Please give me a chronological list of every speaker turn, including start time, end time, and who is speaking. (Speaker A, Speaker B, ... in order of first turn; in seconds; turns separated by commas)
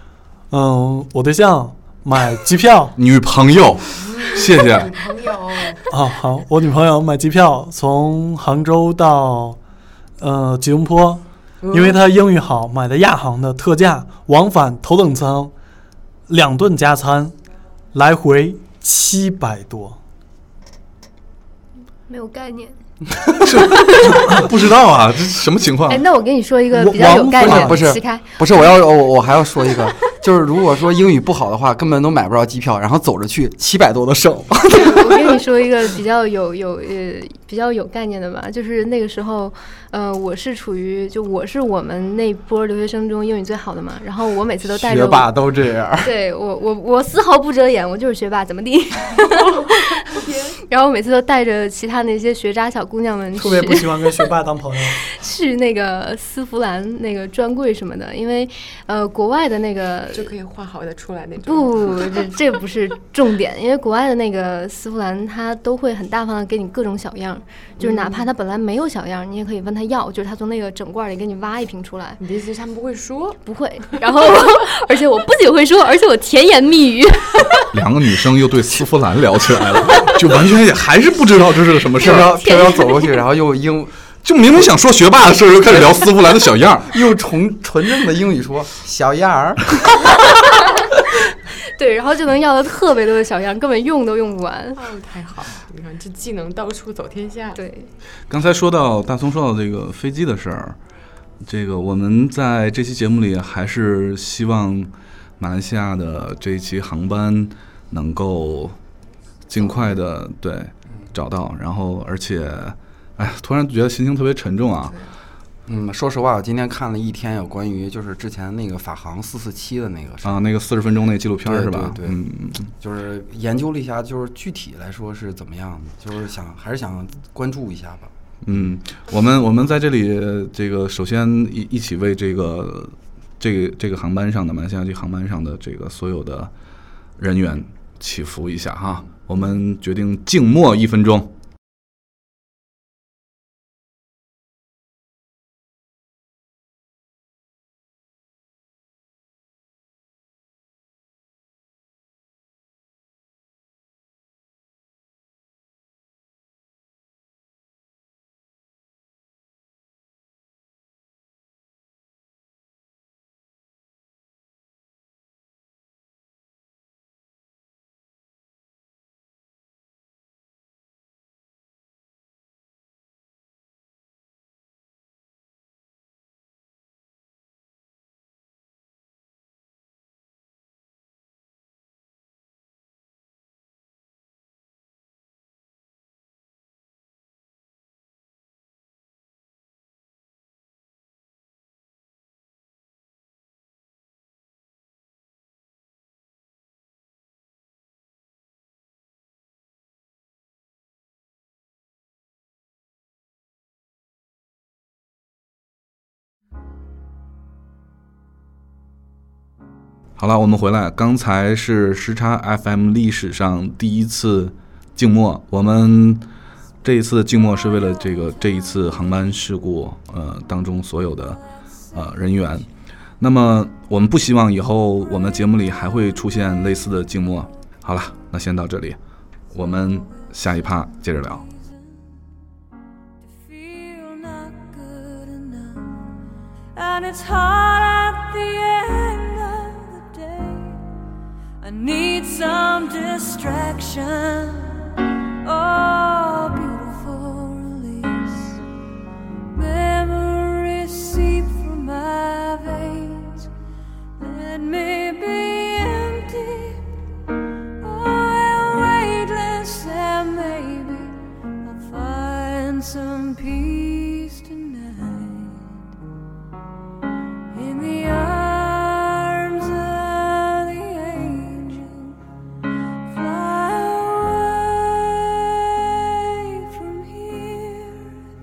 Speaker A: 0.5-3.0, Speaker B: 3.0-5.0, Speaker C: 4.8-5.8, Speaker A: 5.9-9.6, Speaker A: 10.2-15.5, Speaker C: 11.6-11.9, Speaker A: 16.3-17.3, Speaker A: 17.9-20.0, Speaker D: 22.1-22.8, Speaker B: 23.4-26.0, Speaker D: 25.9-28.4, Speaker A: 26.7-27.9, Speaker E: 26.8-35.4, Speaker D: 34.7-45.3, Speaker E: 44.7-46.1, Speaker D: 46.0-50.0, Speaker C: 50.0-50.6, Speaker D: 50.7-54.1, Speaker A: 53.4-55.0, Speaker D: 55.0-60.3, Speaker C: 60.1-62.3, Speaker D: 61.5-72.2, Speaker C: 67.8-68.2, Speaker C: 72.2-73.4, Speaker D: 73.4-77.6, Speaker B: 77.7-82.3, Speaker E: 82.0-83.9, Speaker D: 82.0-83.2, Speaker B: 84.2-86.9, Speaker E: 86.9-89.7, Speaker D: 91.8-94.8, Speaker C: 94.8-97.6, Speaker D: 97.5-97.9, Speaker B: 98.3-100.8, Speaker B: 101.4-108.8, Speaker B: 109.5-115.0, Speaker E: 115.7-120.5, Speaker B: 120.2-122.7, Speaker E: 121.4-122.2, Speaker E: 122.7-128.7, Speaker B: 128.4-136.5, Speaker B: 137.2-141.3, Speaker B: 210.2-216.2, Speaker B: 216.8-221.4, Speaker B: 221.9-222.7, Speaker B: 223.2-229.0, Speaker B: 229.5-231.4, Speaker F: 233.2-236.1, Speaker F: 236.7-240.8, Speaker F: 241.6-248.6, Speaker F: 249.5-253.5, Speaker F: 254.2-257.0, Speaker F: 257.8-265.8, Speaker F: 267.5-272.2, Speaker F: 273.1-278.2